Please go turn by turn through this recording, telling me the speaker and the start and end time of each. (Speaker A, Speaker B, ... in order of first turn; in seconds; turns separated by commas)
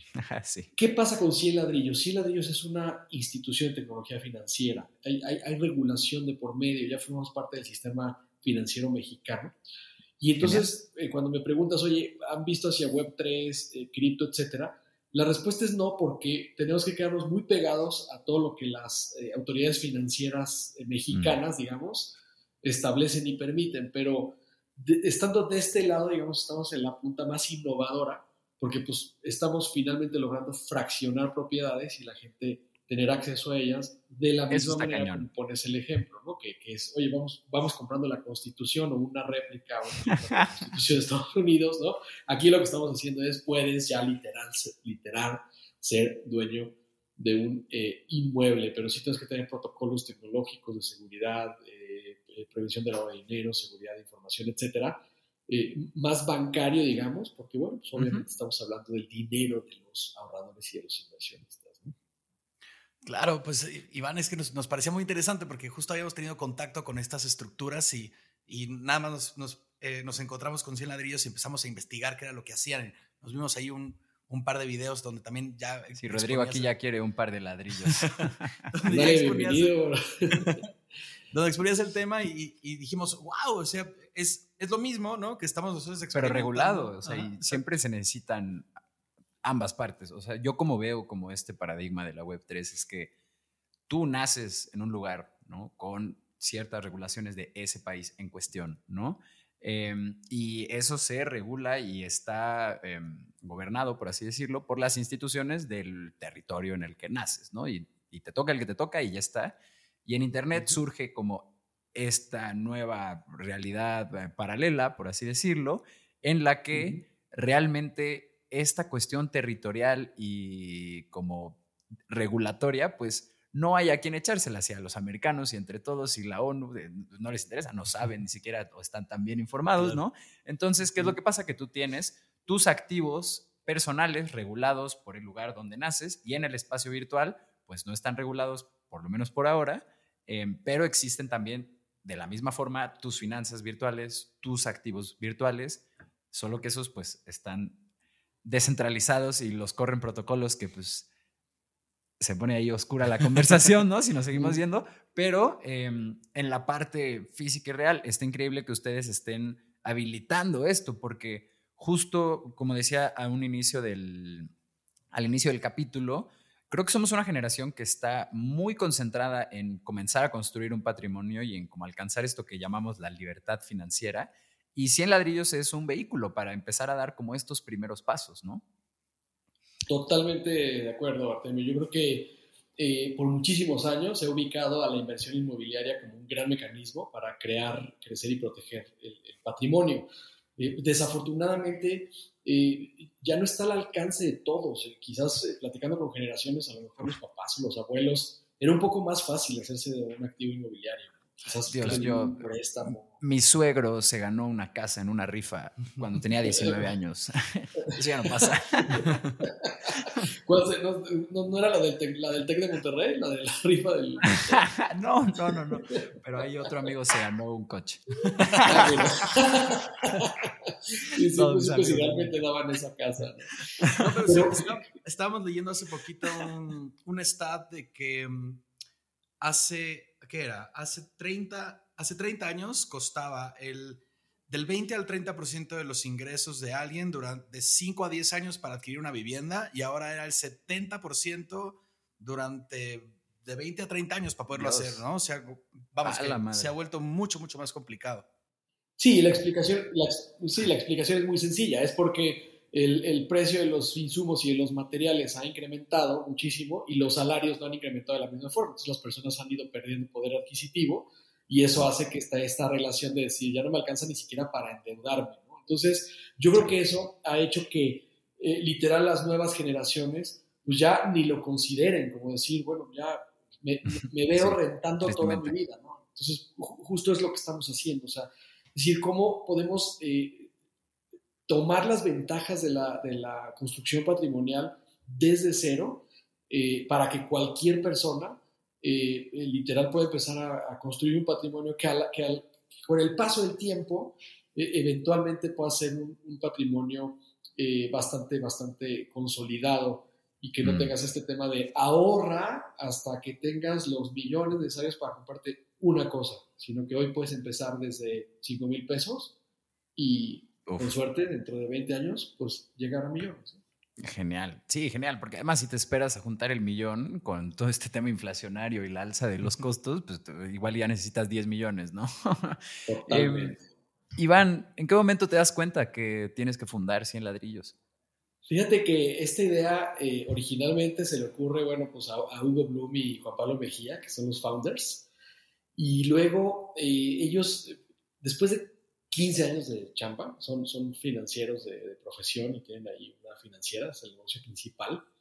Speaker A: 0.2-0.7, Speaker B: 0.8-9.6, Speaker B: 10.2-61.9, Speaker A: 10.4-10.7, Speaker A: 21.1-21.4, Speaker A: 34.5-35.3, Speaker A: 58.0-58.3, Speaker C: 63.0-76.7, Speaker A: 76.0-78.7, Speaker C: 78.8-79.8, Speaker B: 78.9-80.6, Speaker C: 80.3-80.6, Speaker C: 81.3-87.6, Speaker A: 86.1-88.7, Speaker A: 89.4-93.1, Speaker A: 93.9-121.6, Speaker A: 122.1-147.8, Speaker A: 148.4-151.1, Speaker A: 152.2-164.5, Speaker B: 154.3-154.6, Speaker A: 165.1-178.6, Speaker B: 179.9-203.2, Speaker A: 201.7-202.5, Speaker A: 203.1-209.1, Speaker B: 206.5-206.9, Speaker B: 208.4-214.7, Speaker A: 214.5-219.2, Speaker B: 218.7-223.5, Speaker A: 221.3-222.3, Speaker C: 224.0-228.6, Speaker B: 224.2-224.7, Speaker C: 229.4-248.3, Speaker A: 244.5-245.0, Speaker A: 246.0-246.7, Speaker B: 249.0-280.5, Speaker A: 274.0-275.6, Speaker B: 281.5-309.4, Speaker A: 300.6-300.9, Speaker B: 310.0-313.6, Speaker A: 310.7-310.9, Speaker A: 314.0-323.6, Speaker B: 322.9-323.6, Speaker A: 324.2-327.8, Speaker B: 328.5-335.1, Speaker B: 335.8-345.1